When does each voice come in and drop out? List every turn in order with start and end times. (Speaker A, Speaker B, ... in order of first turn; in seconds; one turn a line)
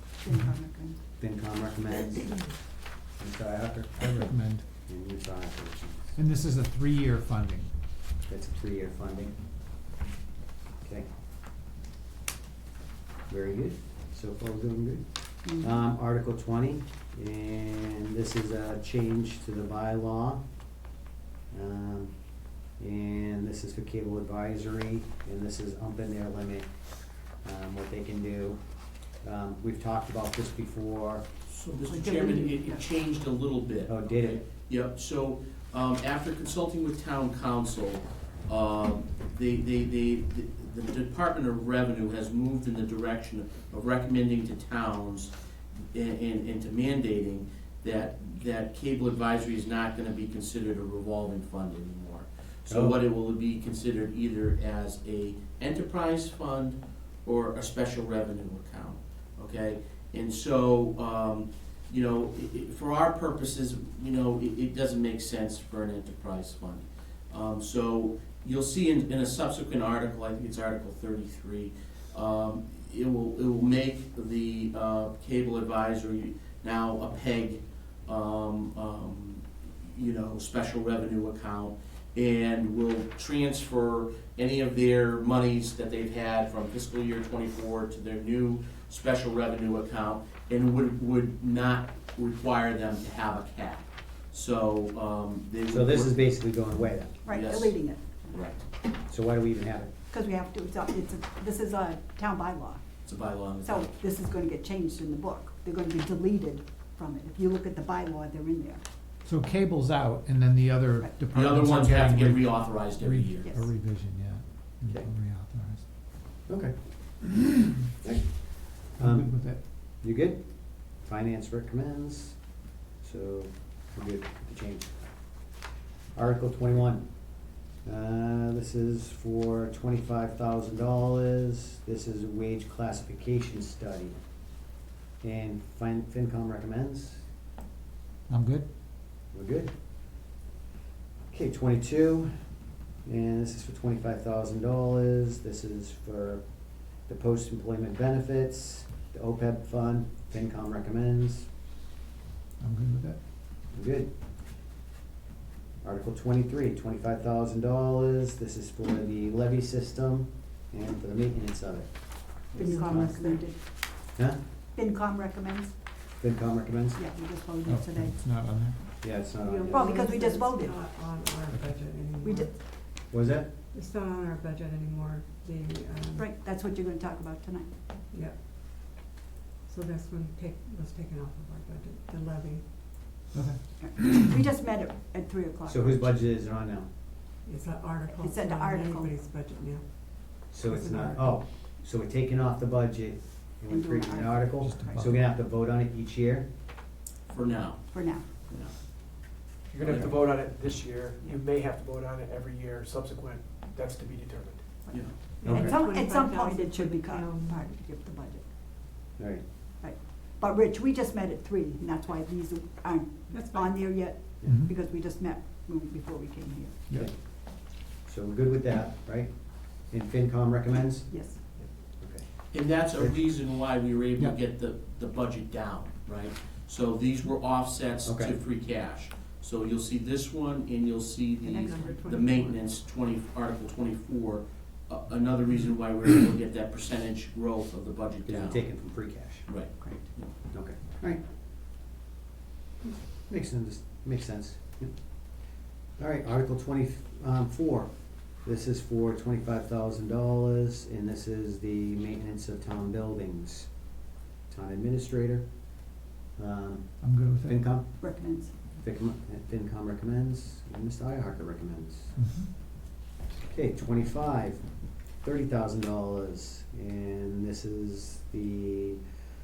Speaker A: 0.2-1.0
Speaker B: 1.2-2.6
Speaker B: 3.2-4.2
Speaker C: 4.0-4.7
Speaker B: 4.9-6.2
Speaker C: 6.2-7.7
Speaker B: 8.3-9.3
Speaker B: 10.8-11.1
Speaker B: 13.3-20.4
Speaker A: 15.4-15.8
Speaker B: 21.5-22.1
Speaker B: 22.8-26.7
Speaker B: 27.4-28.6
Speaker B: 29.2-31.3
Speaker D: 31.5-45.3
Speaker A: 31.9-32.8
Speaker B: 33.9-34.4
Speaker D: 45.9-96.2
Speaker B: 52.7-53.0
Speaker B: 95.7-97.2
Speaker A: 97.2-98.4
Speaker D: 97.3-98.6
Speaker B: 99.1-99.9
Speaker A: 100.1-102.8
Speaker D: 103.1-103.9
Speaker A: 103.7-108.8
Speaker C: 109.2-115.9
Speaker D: 111.3-113.5
Speaker B: 116.5-122.4
Speaker C: 119.0-119.6
Speaker B: 123.0-125.4
Speaker B: 126.1-134.2
Speaker B: 135.2-137.2
Speaker C: 138.3-138.7
Speaker B: 139.3-139.7
Speaker B: 141.3-142.3
Speaker B: 143.1-146.4
Speaker B: 147.0-151.5
Speaker C: 152.6-153.2
Speaker B: 153.7-154.1
Speaker B: 155.8-161.9
Speaker E: 162.5-163.5
Speaker A: 162.6-163.6
Speaker B: 162.9-163.1
Speaker A: 164.8-165.7
Speaker B: 166.2-167.0
Speaker A: 167.0-168.1
Speaker C: 167.7-169.0
Speaker B: 169.0-170.0
Speaker E: 169.3-172.5
Speaker A: 169.7-170.8
Speaker A: 172.2-172.5
Speaker B: 173.1-173.5
Speaker E: 173.7-176.3
Speaker A: 176.2-177.7
Speaker E: 178.1-178.4
Speaker E: 179.7-182.7
Speaker C: 183.3-184.2
Speaker A: 183.8-186.1
Speaker B: 185.7-186.9
Speaker E: 187.4-191.4
Speaker A: 188.1-189.1
Speaker B: 190.5-196.5
Speaker A: 193.7-195.1
Speaker C: 194.6-195.3
Speaker D: 197.3-198.7
Speaker A: 197.9-198.3
Speaker F: 199.7-204.6
Speaker D: 199.8-200.2
Speaker A: 204.8-208.4
Speaker D: 204.9-205.2
Speaker E: 205.4-207.7
Speaker B: 205.4-205.8
Speaker B: 209.2-209.4
Speaker A: 209.8-216.8
Speaker E: 213.3-214.1
Speaker C: 214.4-214.7
Speaker B: 216.9-221.2
Speaker A: 220.7-221.4
Speaker B: 222.0-222.3
Speaker D: 222.5-238.9
Speaker B: 228.1-228.4
Speaker A: 231.4-232.5
Speaker E: 231.7-232.6
Speaker B: 238.3-239.5
Speaker D: 239.5-240.3
Speaker B: 240.5-241.2
Speaker B: 243.1-245.0
Speaker B: 246.0-247.9
Speaker B: 248.4-253.7
Speaker B: 254.5-255.5
Speaker B: 256.4-258.1
Speaker C: 257.0-257.6
Speaker A: 258.0-258.5
Speaker B: 258.8-262.2
Speaker C: 262.2-262.5
Speaker B: 263.5-264.6
Speaker B: 265.2-269.0